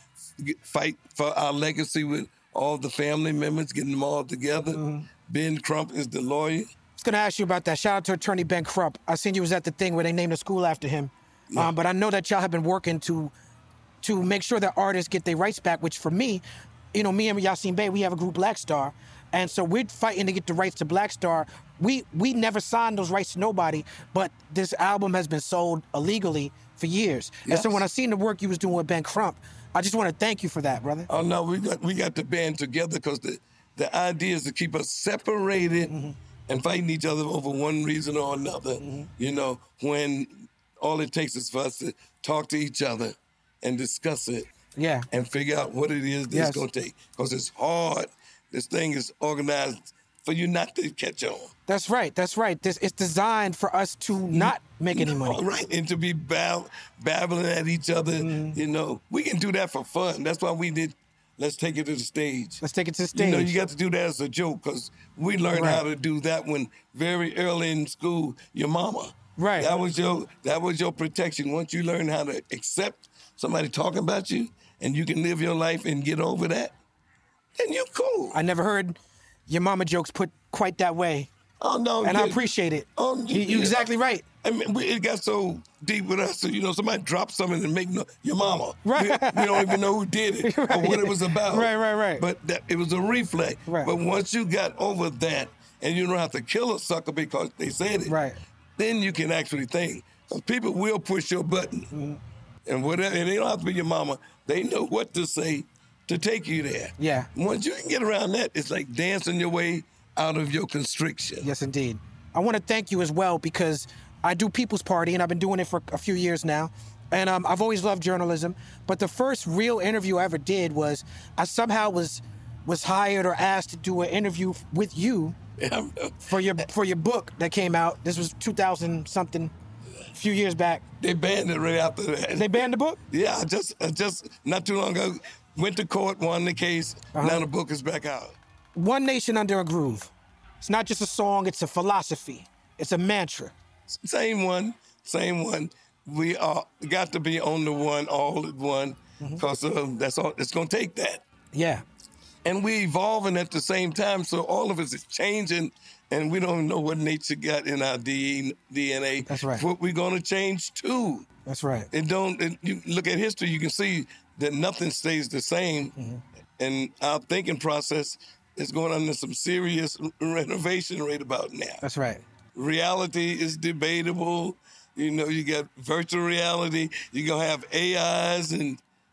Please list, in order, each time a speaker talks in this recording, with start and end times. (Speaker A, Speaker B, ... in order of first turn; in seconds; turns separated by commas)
Speaker A: 0.4-6.7, Speaker B: 4.7-5.1, Speaker B: 7.0-13.3, Speaker B: 14.0-16.4, Speaker B: 16.9-31.1, Speaker A: 27.4-27.8, Speaker A: 31.1-35.9, Speaker B: 35.9-36.2, Speaker A: 36.5-44.5, Speaker B: 38.8-39.1, Speaker B: 44.8-45.1, Speaker A: 45.1-51.5, Speaker B: 46.3-46.6, Speaker B: 51.7-55.4, Speaker A: 54.3-62.6, Speaker B: 58.2-58.6, Speaker B: 62.6-63.6, Speaker A: 63.1-76.8, Speaker B: 65.5-65.8, Speaker B: 69.4-69.7, Speaker A: 77.6-78.4, Speaker B: 78.3-81.3, Speaker A: 81.6-82.4, Speaker B: 82.0-84.2, Speaker A: 83.0-83.9, Speaker A: 84.4-98.2, Speaker B: 88.8-89.8, Speaker B: 90.4-92.2, Speaker B: 93.7-93.9, Speaker B: 98.1-98.4, Speaker A: 98.8-101.9, Speaker B: 101.9-102.2, Speaker A: 102.7-111.5, Speaker B: 107.0-107.3, Speaker B: 111.4-125.4, Speaker A: 125.6-126.4, Speaker B: 126.2-129.5, Speaker B: 130.1-130.8, Speaker A: 131.0-138.4, Speaker B: 132.3-133.0, Speaker B: 137.2-137.5, Speaker B: 138.8-143.5, Speaker A: 143.9-151.2, Speaker B: 151.5-151.8, Speaker A: 152.4-161.3, Speaker B: 159.3-159.7, Speaker B: 161.5-161.9, Speaker A: 161.9-165.9, Speaker B: 166.0-166.2, Speaker A: 166.6-171.8, Speaker B: 171.8-172.2, Speaker A: 172.6-178.8